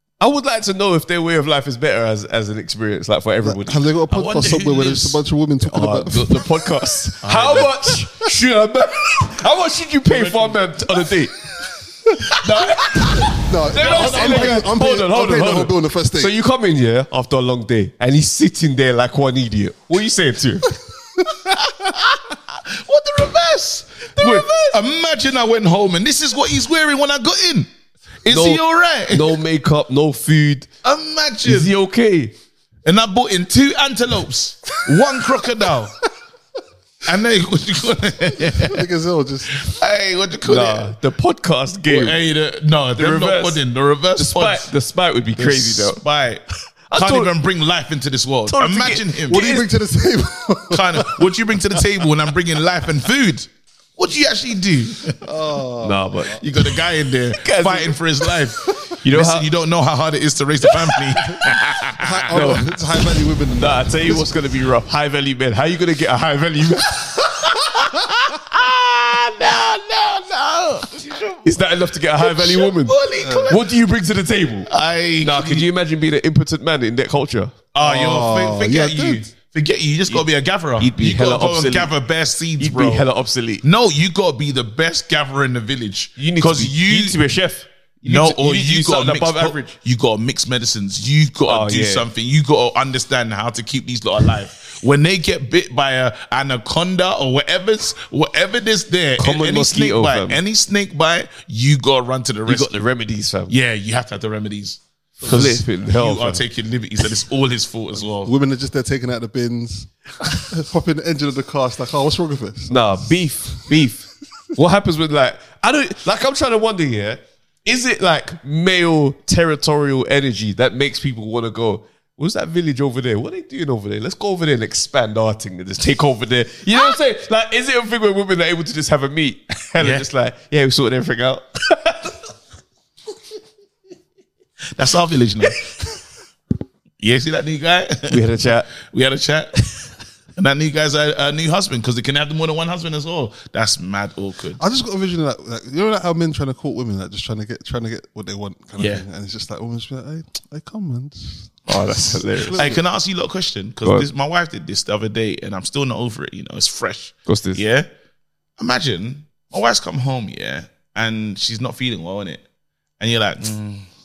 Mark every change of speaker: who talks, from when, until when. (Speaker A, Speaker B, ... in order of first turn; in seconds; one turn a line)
Speaker A: 0.2-3.8
Speaker B: 3.4-6.5
Speaker C: 4.1-5.2
Speaker A: 5.7-11.3
Speaker C: 7.2-7.7
Speaker C: 10.1-10.6
Speaker A: 12.4-20.7
Speaker C: 12.4-14.7
Speaker B: 13.4-16.3
Speaker C: 21.5-27.7
Speaker A: 24.2-24.7
Speaker C: 28.2-29.4
Speaker A: 28.3-30.7
Speaker C: 30.8-31.7
Speaker A: 31.4-32.3
Speaker C: 32.9-36.0
Speaker C: 37.0-38.9
Speaker B: 38.4-39.7
Speaker C: 39.5-41.0
Speaker A: 40.5-42.2
Speaker C: 41.9-44.7
Speaker A: 43.0-43.6
Speaker A: 44.2-46.0
Speaker C: 45.4-46.4
Speaker A: 46.9-47.3
Speaker C: 47.0-49.5
Speaker A: 48.5-49.7
Speaker B: 49.3-51.3
Speaker C: 50.7-55.2
Speaker B: 55.2-56.4
Speaker A: 55.8-56.5
Speaker C: 56.4-62.6
Speaker A: 57.4-58.4
Speaker A: 59.0-59.5
Speaker A: 60.7-61.6
Speaker B: 62.0-64.3
Speaker A: 62.3-62.7
Speaker A: 63.5-68.0
Speaker C: 68.3-73.8
Speaker A: 71.4-73.0
Speaker B: 73.2-73.5
Speaker A: 73.5-74.7
Speaker C: 74.7-75.7
Speaker A: 75.2-77.5
Speaker C: 77.7-83.1
Speaker B: 77.8-79.2
Speaker A: 80.8-81.9
Speaker A: 82.6-83.6
Speaker C: 83.6-87.2
Speaker A: 86.2-89.8
Speaker C: 88.0-102.8
Speaker A: 91.5-92.1
Speaker A: 99.2-100.4
Speaker A: 102.5-103.5
Speaker C: 103.5-108.3
Speaker A: 105.2-106.4
Speaker B: 108.2-112.8
Speaker A: 112.7-132.1
Speaker C: 129.8-130.1
Speaker C: 134.8-135.8
Speaker C: 137.0-138.2
Speaker A: 138.1-138.7
Speaker C: 138.8-139.6
Speaker C: 140.4-144.6
Speaker B: 144.6-152.8
Speaker C: 148.8-149.0
Speaker A: 151.7-152.7
Speaker C: 152.6-157.9
Speaker A: 157.3-157.6
Speaker C: 158.6-162.4
Speaker C: 163.0-163.9